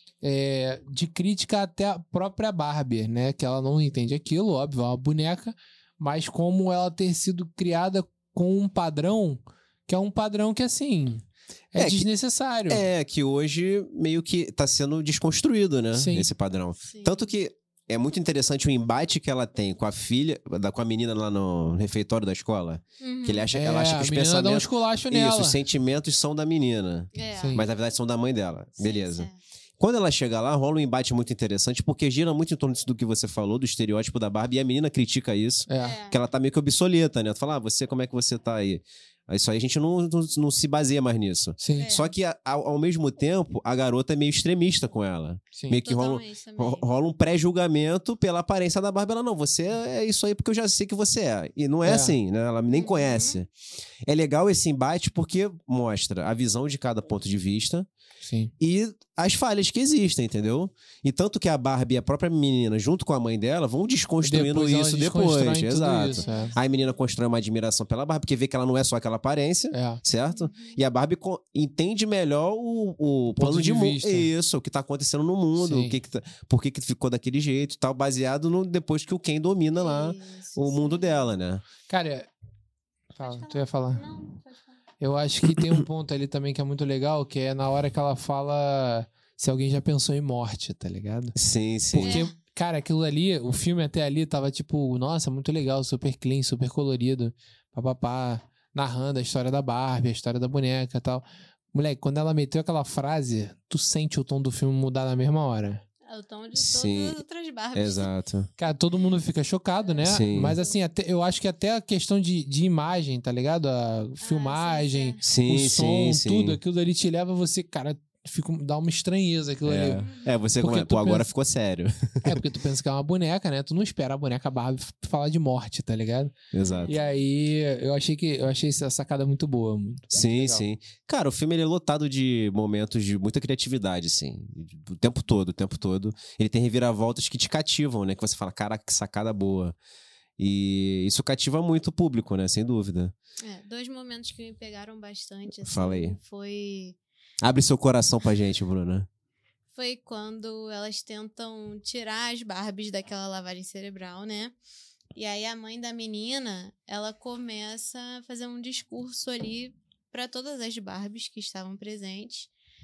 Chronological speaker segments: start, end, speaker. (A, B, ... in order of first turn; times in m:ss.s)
0:00.2-0:12.8 A
0:11.7-0:12.1 B
0:12.7-0:53.5 B
0:15.9-0:16.3 A
0:16.8-0:17.2 C
0:23.0-0:23.5 C
0:23.5-0:25.6 A
0:27.1-0:27.6 C
0:27.3-0:27.6 A
0:28.8-0:29.4 C
0:35.7-0:36.0 A
0:35.8-0:36.2 C
0:41.6-0:41.9 A
0:41.7-0:42.1 C
0:45.5-0:45.8 A
0:45.8-0:46.9 C
0:51.8-0:52.2 A
0:52.7-0:53.4 C
0:54.0-0:57.9 B
0:58.2-0:58.5 A
0:58.6-1:21.6 B
1:04.2-1:06.5 A
1:06.0-1:06.6 C
1:09.7-1:10.0 A
1:10.3-1:10.8 C
1:13.4-1:14.3 A
1:15.6-1:16.0 A
1:19.7-1:21.2 C
1:21.9-1:22.3 A
1:23.2-1:24.0 A
1:23.2-1:24.8 C
1:25.0-1:31.4 A
1:31.3-1:32.2 B
1:31.9-1:45.8 A
1:32.0-1:32.3 C
1:46.0-1:48.1 C
1:46.6-1:47.2 B
1:47.7-1:48.5 B
1:48.6-2:00.0 A
1:49.8-1:50.8 C
1:50.0-1:50.6 B
1:54.2-1:55.2 C
1:55.2-1:56.6 B
1:59.6-2:02.4 B
1:59.9-2:00.3 C
2:00.6-2:01.3 A
2:02.2-2:06.3 A
2:06.5-2:06.9 B
2:06.6-2:07.2 C
2:06.9-2:10.6 A
2:10.1-2:19.8 B
2:20.4-2:23.1 B
2:23.4-2:27.0 C
2:25.6-2:26.2 B
2:27.4-2:29.1 B
2:29.7-2:34.6 C
2:35.1-2:42.5 C